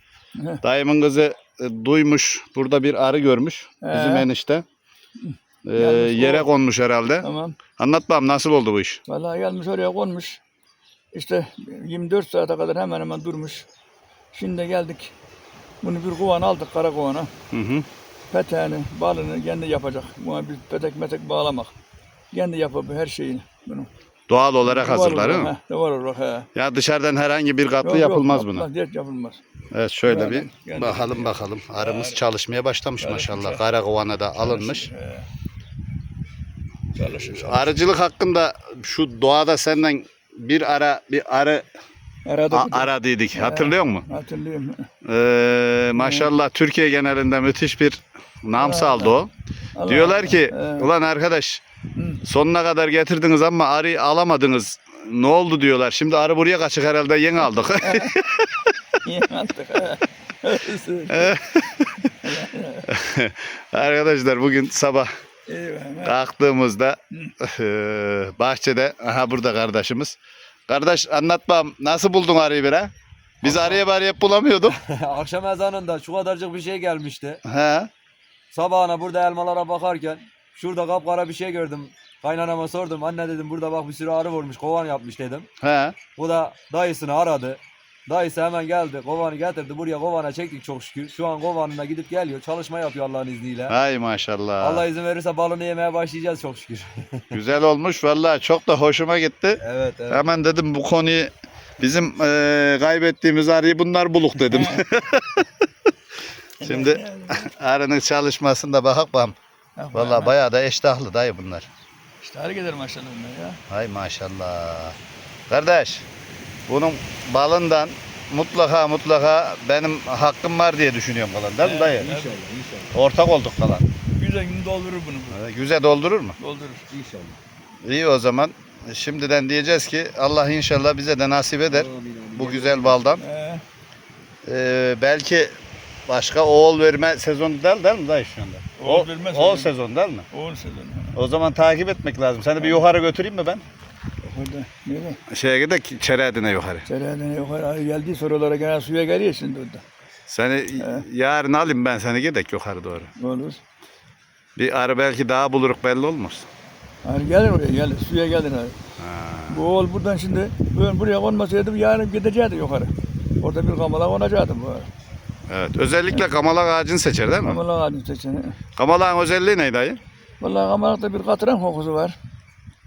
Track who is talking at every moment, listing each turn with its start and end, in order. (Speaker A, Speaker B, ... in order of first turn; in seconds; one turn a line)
Speaker A: 0.6-4.6
Speaker B: 3.8-4.3
Speaker B: 5.2-6.5
Speaker A: 5.6-7.2
Speaker B: 7.2-7.6
Speaker A: 7.8-9.0
Speaker B: 9.1-10.4
Speaker B: 11.1-13.6
Speaker B: 14.3-15.1
Speaker B: 15.8-17.3
Speaker A: 17.5-17.9
Speaker B: 18.3-21.7
Speaker B: 22.3-23.9
Speaker A: 24.3-25.5
Speaker B: 24.6-26.5
Speaker A: 26.5-28.7
Speaker B: 27.8-29.4
Speaker A: 29.7-34.9
Speaker B: 30.0-32.2
Speaker B: 33.0-33.6
Speaker B: 34.4-35.3
Speaker B: 36.9-37.8
Speaker A: 37.2-41.6
Speaker B: 42.2-44.9
Speaker A: 42.5-44.0
Speaker A: 45.0-49.3
Speaker B: 46.0-46.3
Speaker B: 48.5-49.1
Speaker B: 49.8-50.9
Speaker A: 49.9-51.6
Speaker B: 51.9-52.2
Speaker A: 52.2-58.7
Speaker B: 57.8-58.1
Speaker B: 59.0-61.4
Speaker A: 61.1-62.1
Speaker B: 62.1-62.9
Speaker A: 62.9-65.1
Speaker B: 65.5-66.2
Speaker A: 66.0-70.2
Speaker A: 70.7-72.9
Speaker A: 73.4-74.8
Speaker C: 73.4-73.8
Speaker C: 74.7-77.4
Speaker A: 77.4-77.9
Speaker C: 78.5-85.5
Speaker A: 85.6-86.0
Speaker C: 86.2-93.8
Speaker A: 93.7-94.8
Speaker C: 94.6-97.4
Speaker A: 97.3-105.5
Speaker C: 99.6-100.2
Speaker B: 104.4-104.8
Speaker B: 106.6-107.5
Speaker A: 106.6-109.3
Speaker B: 109.8-110.3
Speaker A: 109.9-111.7
Speaker B: 112.2-113.6
Speaker A: 113.7-115.0
Speaker A: 115.5-116.0
Speaker A: 116.7-122.1
Speaker C: 121.6-122.9
Speaker B: 121.9-122.3
Speaker A: 122.9-123.8
Speaker B: 124.1-125.4
Speaker A: 125.3-126.3
Speaker B: 126.4-126.8
Speaker C: 126.9-127.4
Speaker A: 127.8-133.2
Speaker C: 131.7-133.0
Speaker B: 133.2-133.6
Speaker A: 134.4-135.5
Speaker A: 136.1-140.3
Speaker B: 138.8-139.7
Speaker B: 140.3-141.2
Speaker A: 141.1-143.6
Speaker B: 144.2-145.2
Speaker A: 145.3-146.8
Speaker B: 146.8-149.8
Speaker A: 150.3-153.1
Speaker B: 150.8-151.0
Speaker B: 153.2-153.6
Speaker A: 154.6-156.5
Speaker B: 157.0-158.7
Speaker A: 159.0-159.6
Speaker B: 159.5-164.9
Speaker A: 165.5-167.6
Speaker B: 167.4-168.6
Speaker A: 168.8-170.0
Speaker B: 170.4-172.2